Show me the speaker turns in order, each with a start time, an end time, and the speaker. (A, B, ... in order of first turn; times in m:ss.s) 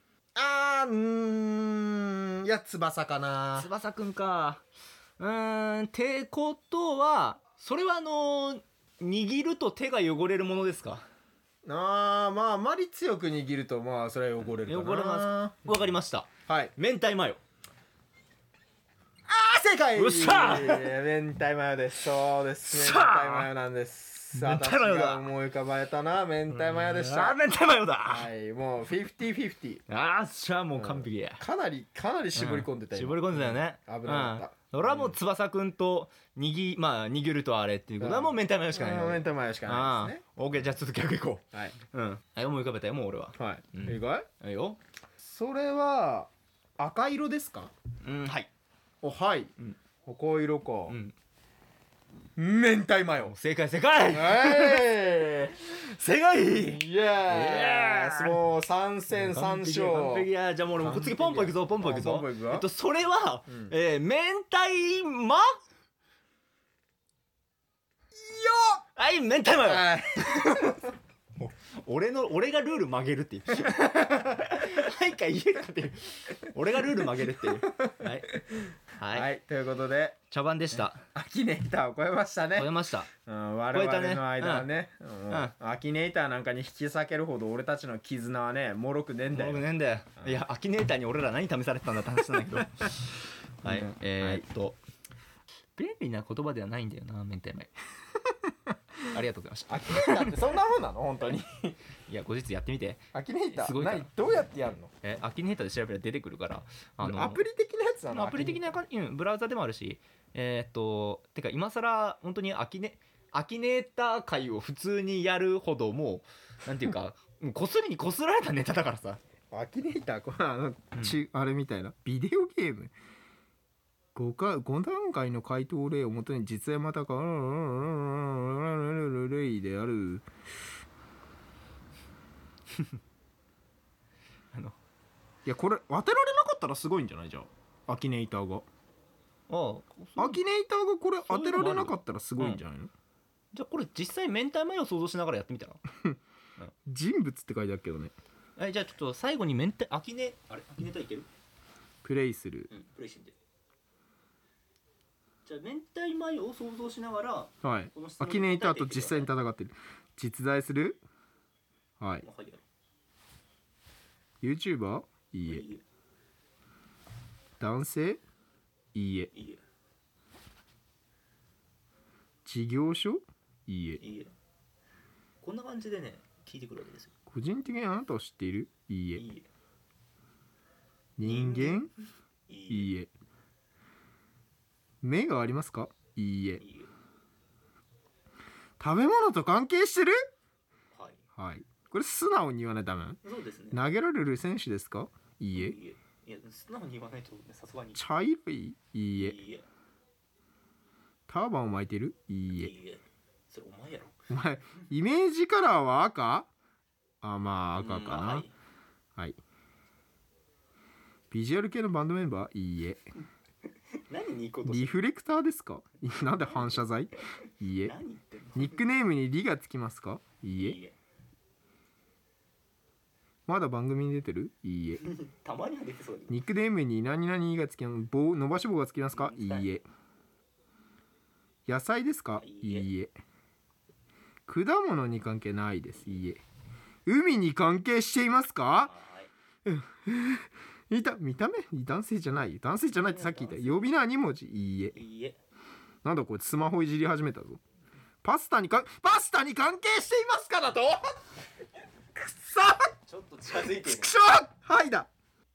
0:00.4-0:03.7 A
0:03.6-0:04.6 B
0:05.2-0:11.0 B
0:11.6-0:15.9 A
0:14.5-0:17.4 B
0:16.5-0:16.7 A
0:19.3-0:27.4 A
0:19.9-0:20.9 B
0:22.6-0:23.5 B
0:24.3-0:25.3 B
0:26.5-0:28.3 B
0:28.0-0:29.8 A
0:29.9-0:31.4 B
0:30.8-0:35.2 A
0:32.3-0:44.8 B
0:38.0-0:40.2 A
0:43.4-0:44.3 A
0:45.2-0:47.7 A
0:48.0-0:48.5 B
0:49.0-0:49.5 A
0:50.0-0:51.0 A
0:50.9-0:51.1 B
0:52.4-0:53.3 A
0:53.2-0:54.9 B
0:54.1-0:55.6 A
0:55.6-0:58.4 B
0:56.5-1:00.3 A
0:59.1-1:05.6 B
1:00.8-1:02.6 A
1:08.2-1:08.8 A
1:09.0-1:10.8 B
1:09.6-1:10.8 A
1:11.4-1:18.4 B
1:17.3-1:20.2 A
1:19.0-1:19.3 B
1:20.3-1:21.0 B
1:20.8-1:29.6 A
1:22.6-1:23.1 B
1:23.7-1:24.7 B
1:29.3-1:34.8 B
1:33.6-1:34.4 A
1:35.8-1:37.7 B
1:39.1-1:40.4 B
1:39.7-1:41.8 A
1:42.1-1:44.1 B
1:43.1-1:44.9 A
1:45.0-1:47.4 B
1:47.0-1:48.7 A
1:48.1-1:59.2 B
1:59.5-2:02.9 A
2:04.1-2:10.2 A
2:15.4-2:18.6 A
2:19.5-2:20.4 B
2:20.2-2:22.9 A
2:21.2-2:22.6 B
2:23.5-2:25.8 B
2:26.8-2:28.1 A
2:28.6-2:31.3 B
2:32.0-2:32.7 A
2:32.7-2:33.3 B
2:35.4-2:39.3 B
2:37.6-2:41.0 A
2:42.0-2:42.2 A
2:42.2-2:42.6 B
2:44.4-2:45.6 A
2:45.4-2:45.8 B
2:47.6-2:48.2 A
2:48.9-2:49.3 A
2:49.3-2:49.6 B
2:52.4-2:54.0 A
2:54.0-2:54.3 B
2:55.4-2:57.1 B
2:57.3-2:59.2 A
2:59.2-2:59.5 B
3:01.2-3:01.9 A
3:01.2-3:01.9 B
3:02.5-3:02.9 B
3:02.7-3:03.1 A
3:05.0-3:06.6 A
3:06.6-3:06.9 B
3:08.8-3:10.2 A
3:10.9-3:11.2 B
3:11.4-3:13.2 A
3:13.2-3:13.8 B
3:13.7-3:15.8 A
3:15.5-3:18.0 B
3:17.9-3:19.4 A
3:19.2-3:19.6 B
3:21.3-3:22.7 A
3:22.5-3:24.2 B
3:24.3-3:26.5 A
3:27.2-3:28.5 A
3:27.8-3:28.5 B
3:31.3-3:33.0 A
3:34.1-3:34.9 B
3:34.6-3:38.0 A
3:37.8-3:38.8 B
3:38.5-3:40.8 A
3:40.6-3:40.9 B
3:43.5-3:45.0 A
3:45.0-3:46.4 B
3:46.3-3:49.8 A
3:49.1-3:49.7 B
3:51.7-3:53.1 A
3:52.4-3:52.9 B
3:54.5-3:56.4 A
3:57.0-3:58.9 A
3:58.8-3:59.3 B
3:59.6-4:05.0 A
4:02.9-4:03.9 B
4:04.9-4:05.4 B
4:06.0-4:07.6 A
4:08.2-4:11.1 A
4:12.1-4:12.9 A
4:13.1-4:14.2 B
4:13.7-4:15.1 A